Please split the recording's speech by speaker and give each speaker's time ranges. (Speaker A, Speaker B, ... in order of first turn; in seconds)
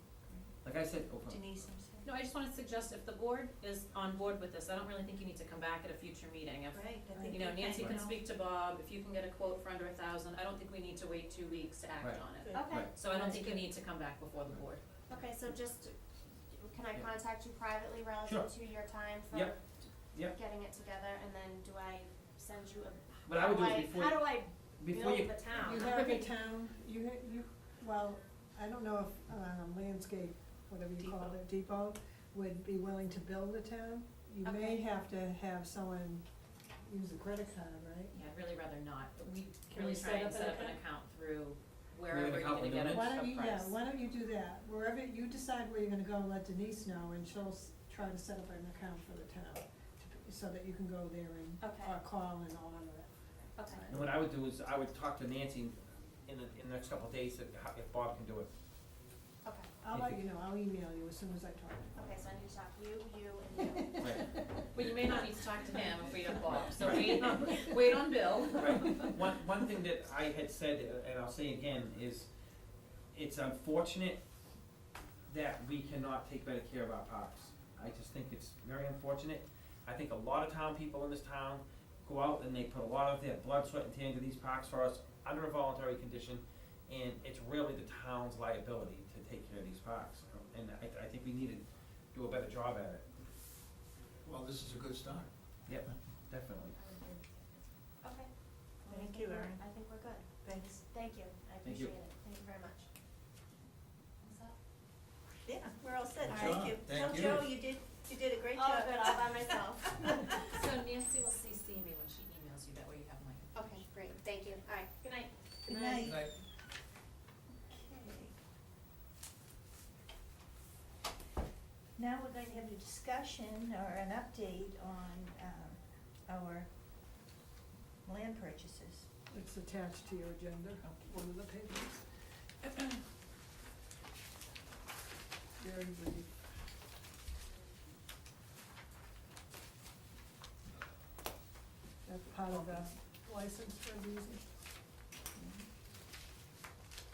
Speaker A: 0.2-0.5, 1.3-2.1, 6.7-8.2, 12.4-13.6, 31.0-31.4, 98.9-99.6, 100.4-100.8, 105.4-110.3, 115.7-116.2, 117.7-118.3, 122.0-126.7, 128.1-129.1, 142.5-142.9
Speaker B: 0.6-1.4, 12.0-12.9, 23.2-25.6, 42.1-43.0, 53.9-55.8, 56.3-58.5, 59.9-60.2, 66.5-67.6, 68.6-72.3, 73.1-74.2, 75.3-93.0, 95.7-96.7, 101.6-101.9
Speaker C: 2.0-14.8, 38.1-43.7, 64.7-69.1, 110.4-113.5
Speaker D: 12.5-12.9, 15.1-15.9, 16.5-26.2, 51.6-51.9, 53.5-54.1, 59.4-59.7, 62.0-64.2, 96.7-97.4, 98.0-98.3, 98.8-100.3, 100.9-102.9, 108.5-110.5, 113.5-116.2
Speaker E: 25.7-36.2, 36.8-38.1, 39.7-40.8, 42.9-53.1, 59.8-61.9, 64.3-64.6, 129.3-131.9, 135.6-136.3, 142.0-144.4
Speaker F: 94.2-95.3, 106.2-107.5, 116.0-116.3